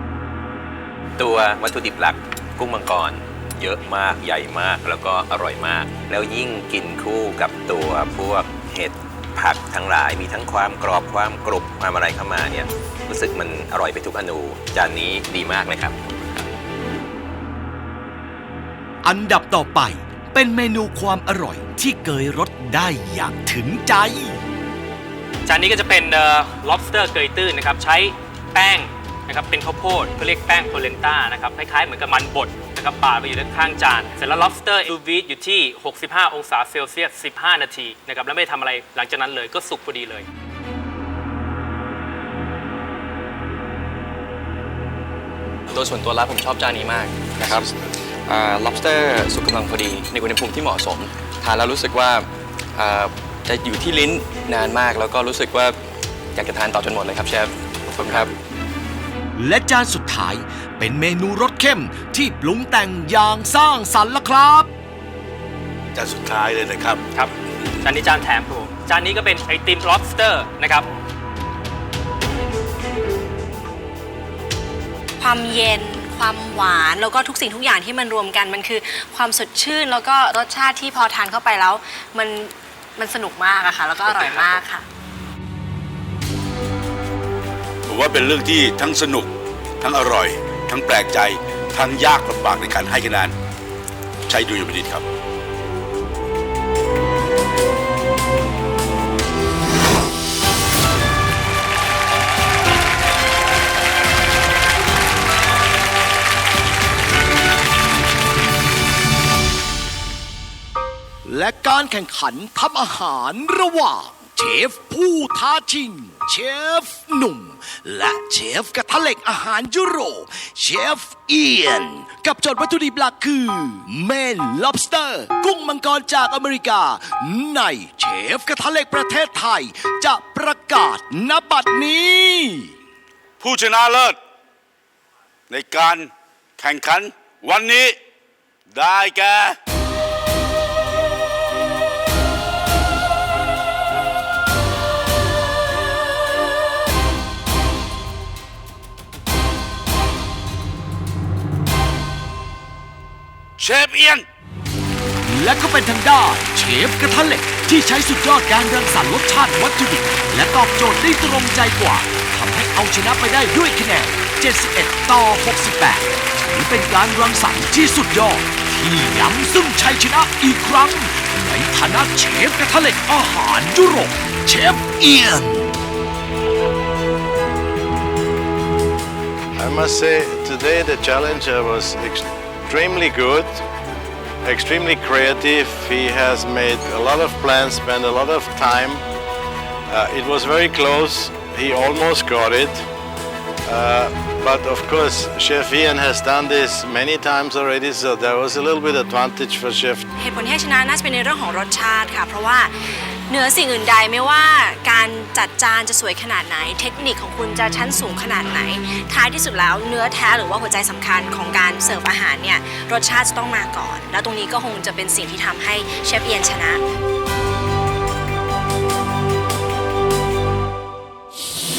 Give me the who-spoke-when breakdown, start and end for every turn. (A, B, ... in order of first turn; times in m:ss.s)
0:01.2-0:16.5 A
0:19.0-0:24.4 B
0:25.4-0:40.2 C
0:45.7-0:47.7 D
0:47.4-0:47.9 E
0:48.2-0:55.8 D
0:56.3-0:58.3 D
0:59.4-1:04.7 B
1:05.9-1:07.0 F
1:07.1-1:10.9 C
1:15.2-1:24.8 G
1:27.9-1:33.3 F
1:34.3-1:35.0 F
1:51.2-2:12.7 B
2:13.4-2:14.2 F
2:15.5-2:18.0 F
2:18.7-2:19.6 F
2:33.6-2:34.2 F
2:35.2-2:55.8 B
2:59.5-3:03.6 E
3:04.4-3:09.0 E
3:09.9-3:12.8 E
3:13.6-3:20.0 E
3:20.2-3:36.8 G